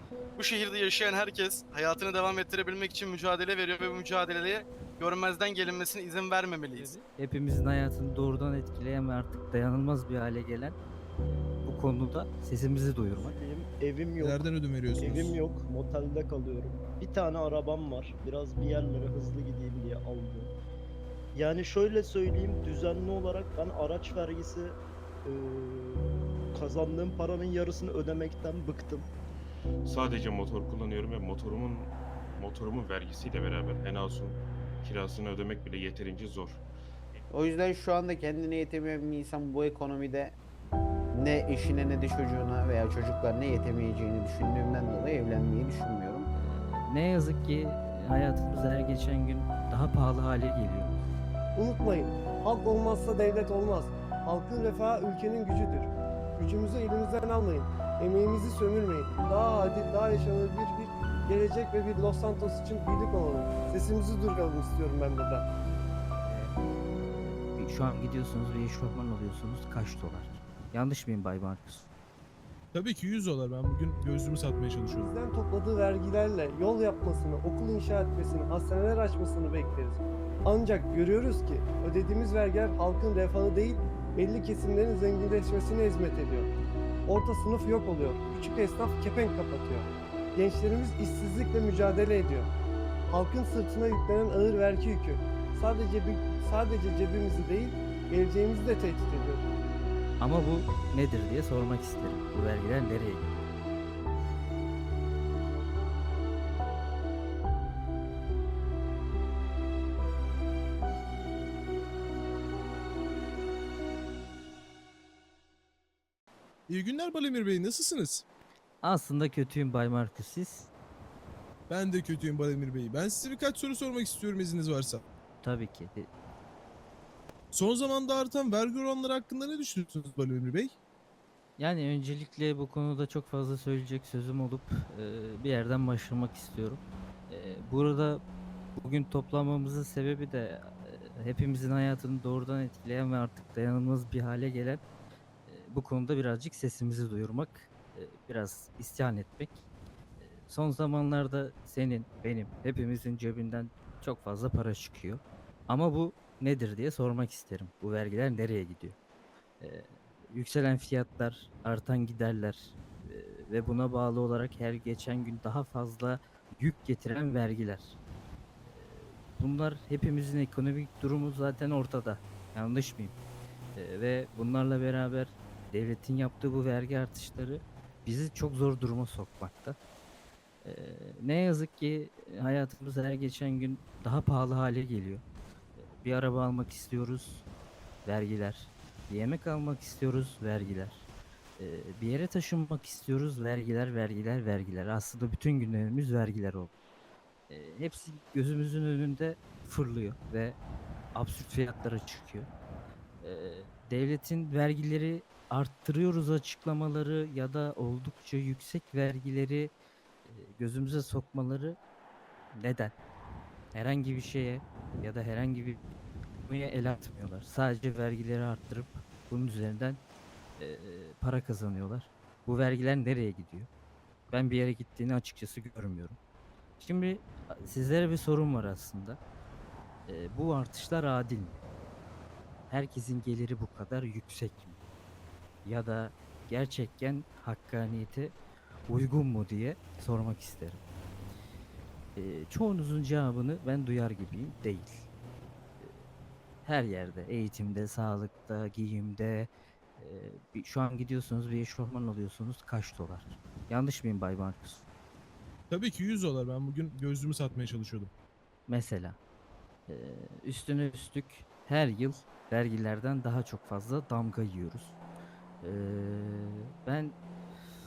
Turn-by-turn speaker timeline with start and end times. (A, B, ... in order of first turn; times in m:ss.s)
0:00.4-0:07.0 A
0:06.8-0:10.8 B
0:11.6-0:13.4 B
0:13.2-0:14.4 C
0:14.2-0:15.4 D
0:15.0-0:20.5 C
0:21.4-0:24.7 C
0:25.3-0:26.0 C
0:26.5-0:29.0 C
0:29.8-0:37.2 E
0:37.3-0:40.4 F
0:41.1-0:46.3 F
0:46.3-0:51.0 B
0:51.5-1:05.4 G
1:06.2-1:11.9 B
1:12.7-1:15.1 D
1:15.0-1:26.5 G
1:27.1-1:32.5 G
1:33.1-1:39.4 G
1:40.2-1:43.4 B
1:56.7-1:58.2 D
1:58.8-2:00.7 B
2:01.7-2:05.0 D
2:05.4-2:06.1 B
2:07.5-2:10.7 D
2:11.6-2:18.2 B
2:18.8-2:24.8 B
2:25.4-2:29.5 B
2:30.2-2:39.0 B
2:39.6-2:48.0 B
2:48.7-2:53.1 B
2:53.7-2:59.8 B
3:00.6-3:05.2 B
3:05.8-3:07.4 B
3:08.0-3:11.0 B
3:11.6-3:16.7 B
3:17.5-3:20.6 B
3:21.1-3:22.5 B
3:23.2-3:29.7 B
3:30.2-3:31.8 B
3:32.5-3:32.9 B
3:33.7-3:35.8 B
3:36.4-3:40.0 B
3:40.6-3:43.7 B
3:44.3-3:46.2 B
3:46.8-3:49.2 B
3:50.1-3:51.6 B
3:52.7-3:54.8 B
3:55.6-3:58.3 B
3:58.9-4:00.8 B
4:02.2-4:05.1 B
4:06.6-4:14.8 B
4:15.7-4:18.1 D
4:18.7-4:19.2 B
4:19.9-4:24.9 B
4:25.6-4:27.2 B